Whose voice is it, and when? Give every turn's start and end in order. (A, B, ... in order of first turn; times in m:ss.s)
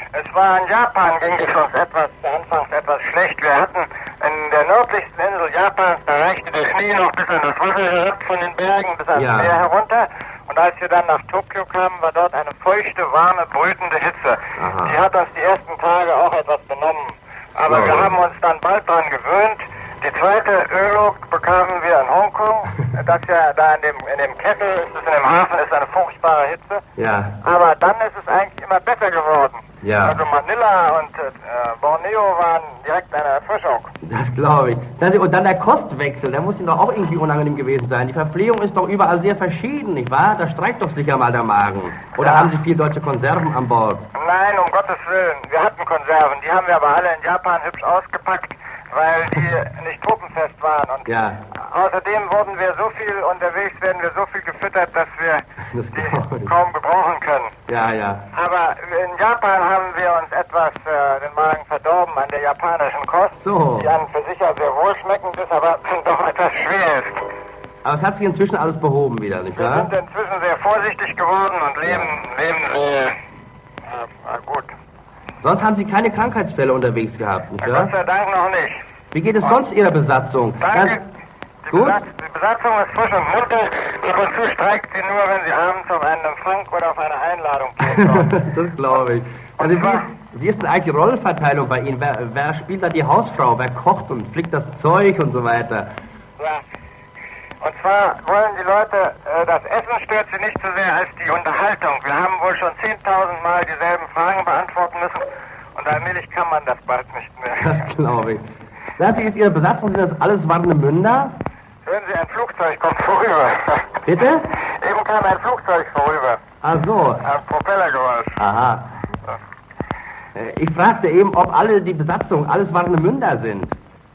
0:00.1-0:26.8 A
0:09.2-0:09.6 B
0:14.6-0:15.0 B
0:17.7-0:18.1 B
0:27.0-0:27.4 B
0:27.4-0:33.9 A
0:29.8-0:30.2 B
0:34.0-0:44.0 B
0:42.2-0:42.6 A
0:44.2-0:57.6 A
0:51.1-0:51.4 B
0:55.7-0:56.5 B
0:57.7-0:58.2 B
0:58.3-1:07.2 A
1:03.4-1:03.9 B
1:07.8-1:09.9 B
1:09.5-1:13.2 A
1:13.9-1:14.7 A
1:15.4-1:17.9 B
1:17.6-1:18.8 A
1:19.1-1:21.0 B
1:20.6-1:21.0 A
1:21.6-1:28.4 A
1:21.7-1:22.0 B
1:27.8-1:35.9 B
1:29.6-1:30.0 A
1:36.4-1:36.6 A
1:37.6-1:47.8 A
1:47.6-1:48.4 B
1:49.0-1:51.4 B
1:51.8-1:56.4 A
1:54.1-1:54.5 B
1:56.6-1:57.3 B
1:57.2-1:58.4 A
1:58.4-1:58.8 B
2:00.4-2:03.8 B